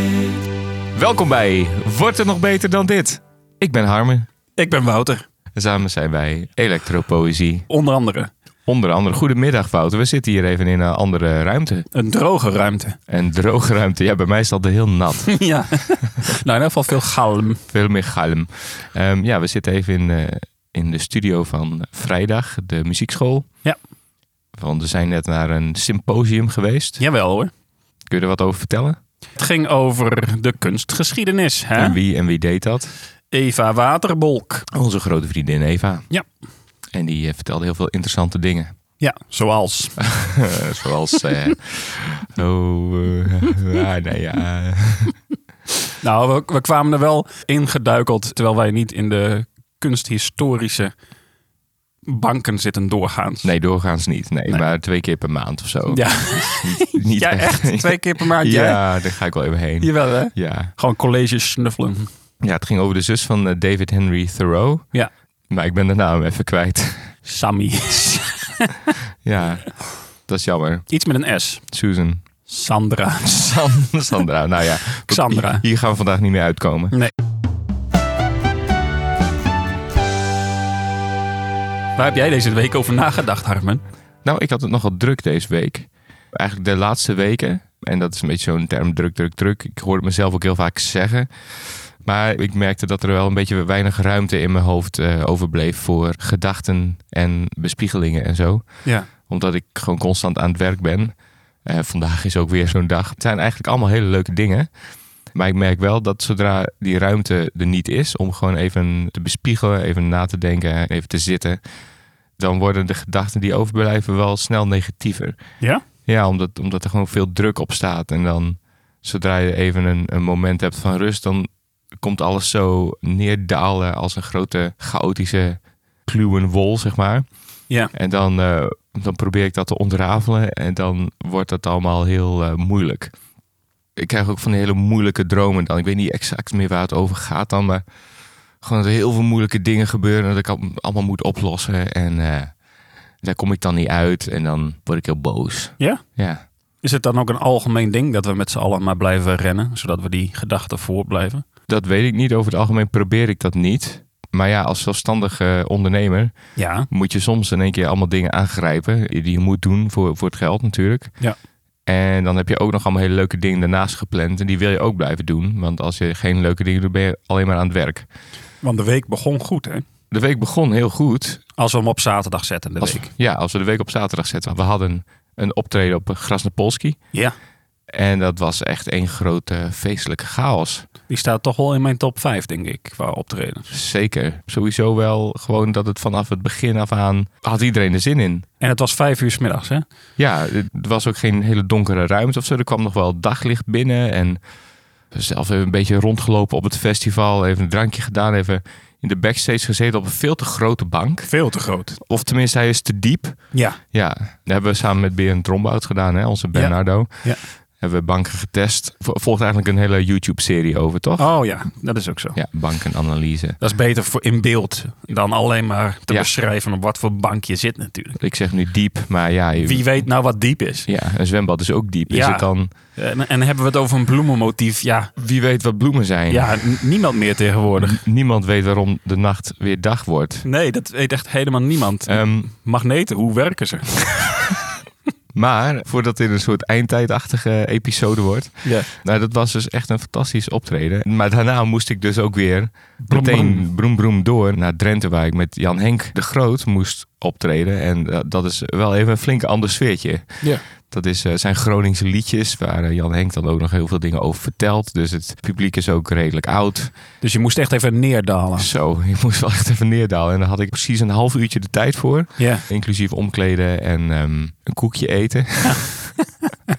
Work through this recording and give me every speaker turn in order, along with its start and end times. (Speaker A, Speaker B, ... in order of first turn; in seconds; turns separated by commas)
Speaker A: 0.9-4.3, Speaker B: 4.6-5.2, Speaker A: 5.5-7.7, Speaker B: 7.7-8.3, Speaker A: 8.7-11.9, Speaker B: 11.9-13.0, Speaker A: 13.1-15.5, Speaker B: 15.4-17.6, Speaker A: 17.7-23.5, Speaker A: 24.5-27.0, Speaker B: 27.0-27.5, Speaker A: 28.1-29.0, Speaker B: 29.4-32.0, Speaker A: 31.8-32.9, Speaker B: 33.3-34.6, Speaker A: 34.7-36.1, Speaker A: 36.9-38.7, Speaker B: 39.0-40.0, Speaker A: 40.0-45.2, Speaker B: 46.0-50.9, Speaker B: 52.1-53.5, Speaker A: 53.4-60.7, Speaker B: 55.9-58.8, Speaker B: 59.8-62.1, Speaker A: 62.4-64.9, Speaker A: 65.5-67.1, Speaker B: 67.3-68.5, Speaker A: 69.2-70.9, Speaker B: 70.9-71.6, Speaker A: 71.7-72.3, Speaker B: 72.5-73.3, Speaker A: 73.2-77.0, Speaker B: 75.1-75.6, Speaker B: 82.0-83.8, Speaker A: 84.2-104.7, Speaker A: 105.3-111.6, Speaker A: 112.4-115.5, Speaker A: 116.1-127.3, Speaker A: 127.8-133.1, Speaker A: 134.0-137.8, Speaker A: 138.6-142.6, Speaker A: 143.2-146.4, Speaker B: 146.8-151.4, Speaker A: 151.7-161.2, Speaker B: 156.6-156.9, Speaker A: 161.8-168.1, Speaker B: 168.6-169.8, Speaker A: 170.1-171.4, Speaker B: 171.6-173.0, Speaker A: 172.8-177.0, Speaker A: 177.9-180.9, Speaker B: 181.1-183.7, Speaker A: 183.7-188.4, Speaker B: 188.6-189.8, Speaker A: 190.2-194.4, Speaker A: 195.1-201.4, Speaker B: 201.3-202.0, Speaker A: 202.0-211.7, Speaker B: 203.5-203.8, Speaker B: 206.5-207.4, Speaker B: 211.2-212.4, Speaker A: 212.3-213.6, Speaker B: 213.6-218.2, Speaker A: 218.2-220.1, Speaker B: 219.6-220.9, Speaker A: 220.9-222.7, Speaker B: 222.1-225.1, Speaker A: 225.2-226.7, Speaker B: 226.3-227.9, Speaker A: 227.8-230.5, Speaker B: 230.5-234.3, Speaker A: 232.1-232.5, Speaker A: 235.3-256.9, Speaker B: 243.1-243.6, Speaker B: 257.2-258.7, Speaker A: 258.6-266.1, Speaker B: 262.4-262.6